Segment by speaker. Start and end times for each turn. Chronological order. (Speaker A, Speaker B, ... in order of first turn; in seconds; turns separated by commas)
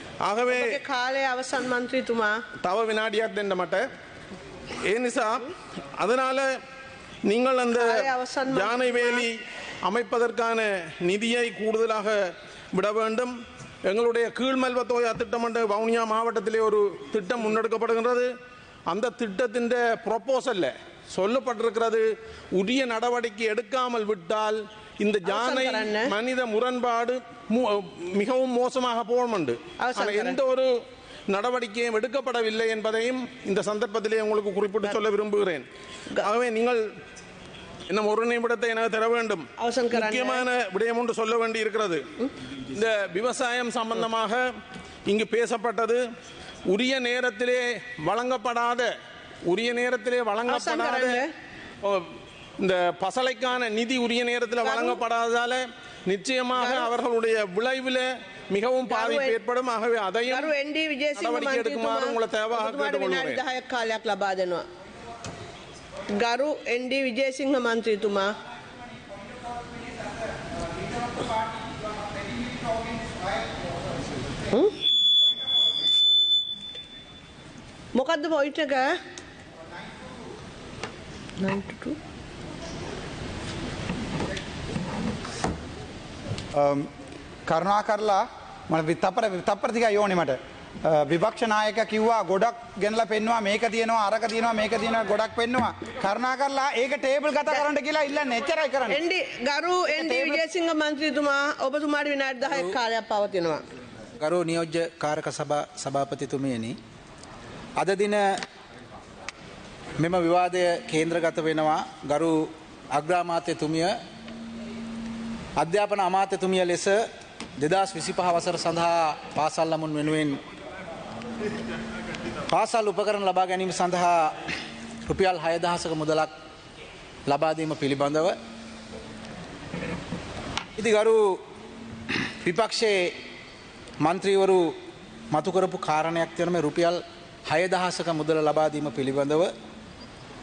Speaker A: 0.2-0.8, Speaker B: 0.5-2.4, Speaker A: 2.6-3.9, Speaker A: 4.9-6.5, Speaker A: 7.2-7.9, Speaker B: 7.7-9.3, Speaker A: 8.5-13.3, Speaker A: 13.9-18.3, Speaker A: 18.9-30.7, Speaker B: 25.3-26.1, Speaker B: 29.8-30.4, Speaker A: 31.3-35.6, Speaker A: 36.2-36.8, Speaker A: 37.9-42.0, Speaker B: 39.6-40.5, Speaker A: 42.7-44.5, Speaker A: 45.1-46.0, Speaker A: 46.7-48.9, Speaker A: 49.5-51.2, Speaker B: 50.5-51.3, Speaker A: 51.8-60.5, Speaker B: 54.6-55.0, Speaker B: 56.6-56.9, Speaker B: 58.9-59.4, Speaker B: 60.3-64.7, Speaker A: 61.2-63.4, Speaker B: 66.2-68.3, Speaker C: 70.7-73.6, Speaker B: 78.0-78.9, Speaker B: 81.4-82.0, Speaker C: 86.6-86.9, Speaker C: 87.5-99.0, Speaker B: 98.9-103.6, Speaker C: 100.0-100.4, Speaker D: 104.2-106.8, Speaker D: 107.8-108.4, Speaker D: 110.0-114.0, Speaker D: 115.6-117.0, Speaker D: 117.6-120.4, Speaker D: 122.5-124.4, Speaker D: 125.1-126.3, Speaker D: 127.3-128.4, Speaker D: 130.8-131.4, Speaker D: 132.4-133.2, Speaker D: 134.0-134.7, Speaker D: 135.3-139.5